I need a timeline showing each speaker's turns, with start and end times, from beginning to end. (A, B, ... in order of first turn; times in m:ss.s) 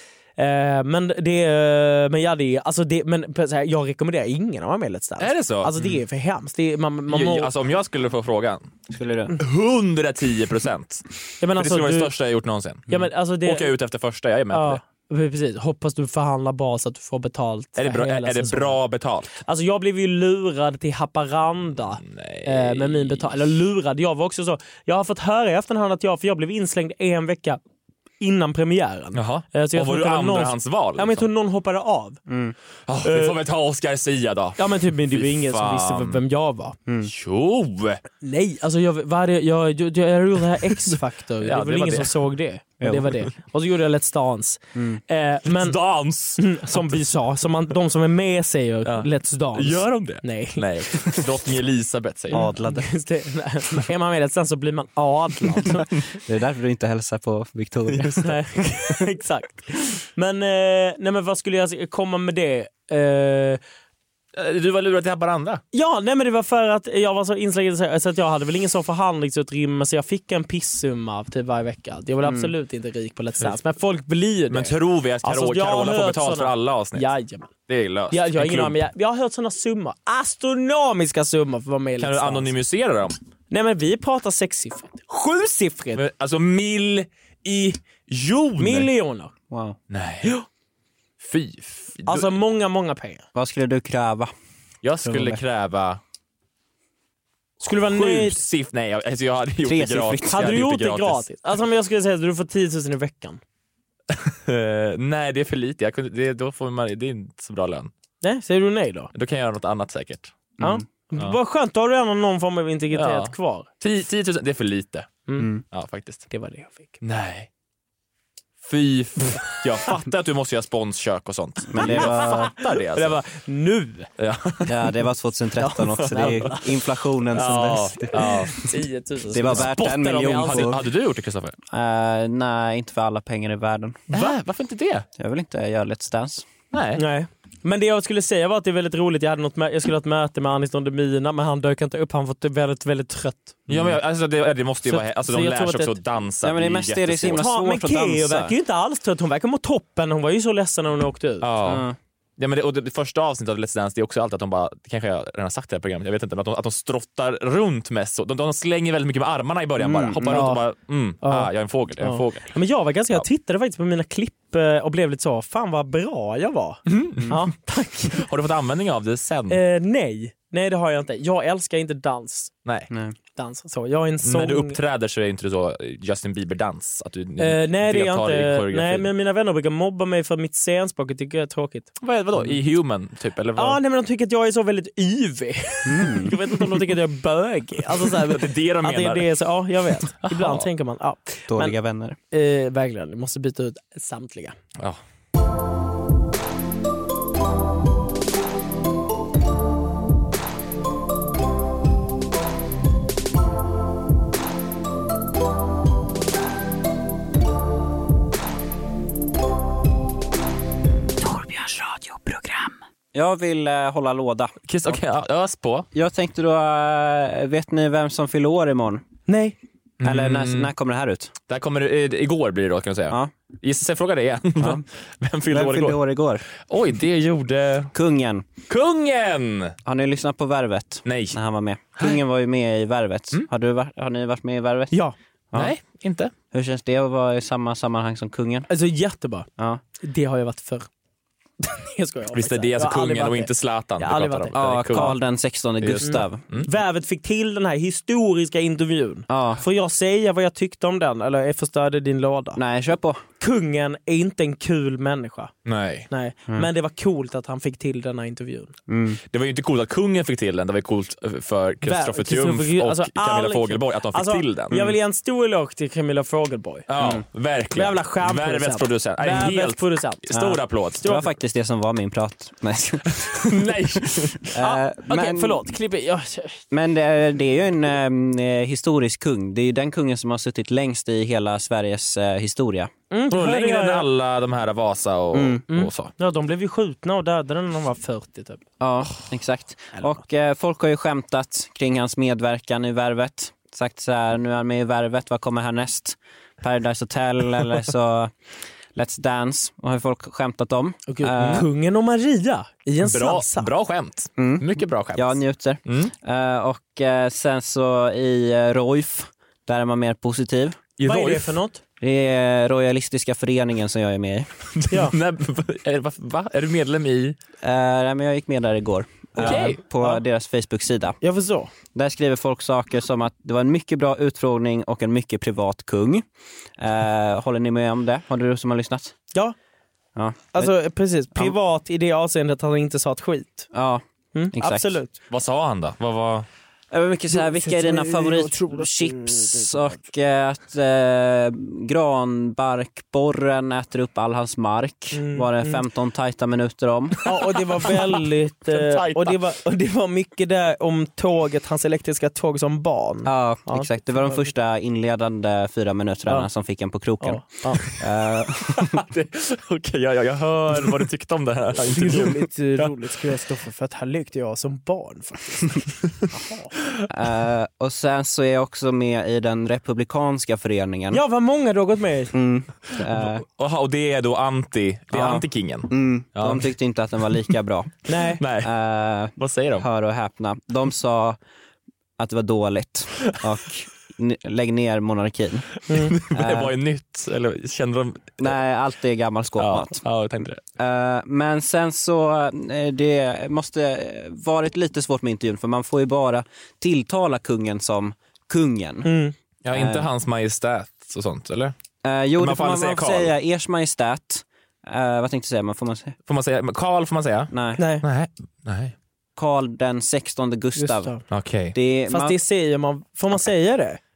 0:00.4-0:07.5 A
0:05.2-0:05.7 B
0:07.1-0:08.7 B
0:08.9-0:09.4 C
0:09.4-0:12.9 B
0:11.4-0:12.1 A
0:12.9-0:13.7 A
0:13.4-0:14.8 B
0:14.5-0:18.8 A
0:17.8-0:19.3 B
0:19.4-0:27.6 A
0:21.9-0:23.5 B
0:28.2-0:32.2 A
0:29.1-0:31.3 B
0:32.3-0:32.6 C
0:32.9-0:36.2 B
0:33.0-0:33.4 A
0:34.6-0:36.8 A
0:37.0-0:38.0 B
0:38.2-0:45.8 A
0:41.4-0:42.2 B
0:42.8-0:43.1 C
0:44.8-0:45.0 C
0:45.5-0:47.0 B
0:46.4-0:50.6 A
0:48.8-0:52.5 B
0:52.3-0:55.9 A
0:52.3-0:52.9 C
0:56.3-0:58.3 C
0:57.9-0:58.2 B
0:58.2-1:03.6 A
1:04.3-1:05.6 B
1:05.7-1:17.5 A
1:12.2-1:12.5 C
1:14.5-1:17.1 B
1:17.7-1:18.8 B
1:18.1-1:22.5 A
1:22.0-1:23.2 B
1:23.5-1:26.0 A
1:26.0-1:28.9 B
1:28.6-1:29.3 A
1:29.5-1:29.8 C
1:29.9-1:30.4 B
1:31.2-1:32.4 B
1:32.1-1:33.2 A
1:33.4-1:34.3 C
1:34.8-1:36.0 B
1:35.0-1:35.4 C
1:37.6-1:38.4 A
1:37.9-1:41.2 B
1:39.6-1:40.6 C
1:40.3-1:43.4 A
1:44.1-1:47.9 B
1:48.2-1:49.1 A
1:49.1-1:50.4 B
1:50.6-1:53.7 A
1:52.9-1:55.2 B
1:55.7-1:56.3 B
1:56.3-1:57.0 A
1:57.0-1:57.5 B
1:58.6-2:03.2 B
2:01.7-2:02.5 C
2:01.8-2:02.4 A
2:02.9-2:04.1 A
2:04.2-2:04.8 B
2:04.7-2:08.1 C
2:05.6-2:06.7 A
2:06.1-2:06.5 B
2:07.3-2:08.6 B
2:08.1-2:10.7 A
2:09.3-2:10.8 C
2:09.5-2:11.6 B
2:11.7-2:14.1 C
2:14.1-2:15.1 B
2:15.2-2:16.5 C
2:16.7-2:17.0 B
2:17.0-2:23.7 A
2:23.7-2:27.4 B
2:24.9-2:26.0 A
2:26.4-2:28.5 C
2:27.3-2:31.5 A
2:31.4-2:31.8 B
2:31.6-2:32.0 C
2:32.4-2:42.5 B
2:39.8-2:40.4 C
2:40.3-2:40.6 A
2:41.2-2:41.5 A
2:42.0-2:48.2 A
2:46.9-2:47.4 B
2:48.1-2:49.6 B
2:49.5-2:52.5 A
2:53.4-2:54.8 A
2:54.2-2:59.1 B
2:57.4-3:01.9 A
3:02.0-3:03.8 B
3:03.6-3:11.8 A
3:05.9-3:06.3 C
3:07.9-3:09.3 B
3:10.2-3:10.7 B
3:11.5-3:12.2 C
3:12.3-3:14.6 A
3:33.1-3:34.6 C
3:34.7-3:35.9 B
3:35.9-3:39.0 C
3:39.3-3:39.6 A
3:40.0-3:40.7 B
3:40.0-3:41.3 C
3:41.5-3:46.0 B
3:44.6-3:44.8 C
3:45.5-3:46.5 C
3:46.6-3:47.9 B
3:47.9-3:48.5 C
3:48.7-3:49.7 B
3:49.8-3:55.0 C
3:51.0-3:51.4 B
3:55.5-3:56.3 B
3:56.5-3:58.7 C
3:58.7-3:59.5 A
4:00.0-4:00.9 A
4:01.6-4:04.6 A
4:02.3-4:05.2 B
4:04.5-4:06.4 C
4:05.8-4:06.7 B
4:06.0-4:12.6 A
4:09.3-4:09.6 C
4:12.6-4:13.2 C
4:13.4-4:15.5 A
4:15.6-4:16.1 B
4:16.1-4:18.7 A
4:18.9-4:19.2 C
4:19.3-4:25.0 B
4:21.8-4:26.9 A
4:26.9-4:31.0 B
4:27.8-4:30.2 A
4:30.3-4:33.6 C
4:31.0-4:31.3 A
4:33.1-4:34.5 B
4:34.2-4:35.6 C
4:34.6-4:36.6 A
4:36.7-4:42.9 C
4:43.1-4:44.1 A
4:43.3-4:46.1 B
4:45.3-4:45.6 C
4:45.7-4:48.6 A
4:48.8-4:58.3 C
4:59.0-5:01.7 C
5:01.1-5:03.7 A
5:03.0-5:06.1 B
5:04.4-5:10.8 C
5:11.0-5:11.6 B
5:11.0-5:11.8 A
5:12.0-5:14.5 C
5:14.7-5:17.4 B
5:17.6-5:21.2 C
5:19.4-5:19.8 B
5:19.4-5:20.2 A
5:21.2-5:21.7 A
5:21.9-5:26.2 C
5:26.8-5:29.2 C
5:30.2-5:30.7 C
5:30.5-5:33.7 A
5:33.7-5:35.0 C
5:34.4-5:35.1 A
5:35.3-5:36.5 B
5:36.9-5:47.2 C
5:37.3-5:40.0 A
5:45.1-5:45.8 A
5:47.2-5:54.5 A
5:48.7-5:49.4 B
5:53.3-5:59.0 C
5:57.2-5:57.9 A
5:58.8-6:03.0 B
6:01.8-6:05.8 A
6:06.3-6:06.7 A
6:07.1-6:11.2 C
6:11.1-6:12.3 A
6:12.3-6:13.4 C
6:13.1-6:16.7 B
6:15.1-6:18.0 C
6:18.1-6:18.4 A
6:18.4-6:18.7 B
6:18.6-6:21.4 C
6:19.4-6:19.8 B
6:22.2-6:25.7 C
6:25.9-6:26.2 A
6:25.9-6:28.6 B
6:26.3-6:26.8 C
6:28.4-6:30.0 C
6:29.6-6:30.6 B
6:30.8-6:39.1 C
6:39.0-6:39.3 A
6:39.6-6:41.8 B
6:39.7-6:40.1 C
6:42.0-6:46.2 C
6:42.4-6:43.3 B
6:46.3-6:49.0 B
6:47.5-6:47.8 C
6:47.8-6:48.0 A
6:49.4-6:51.1 C
6:50.8-6:51.2 A
6:51.3-6:51.8 B
6:51.7-6:52.4 C
6:52.1-6:54.0 A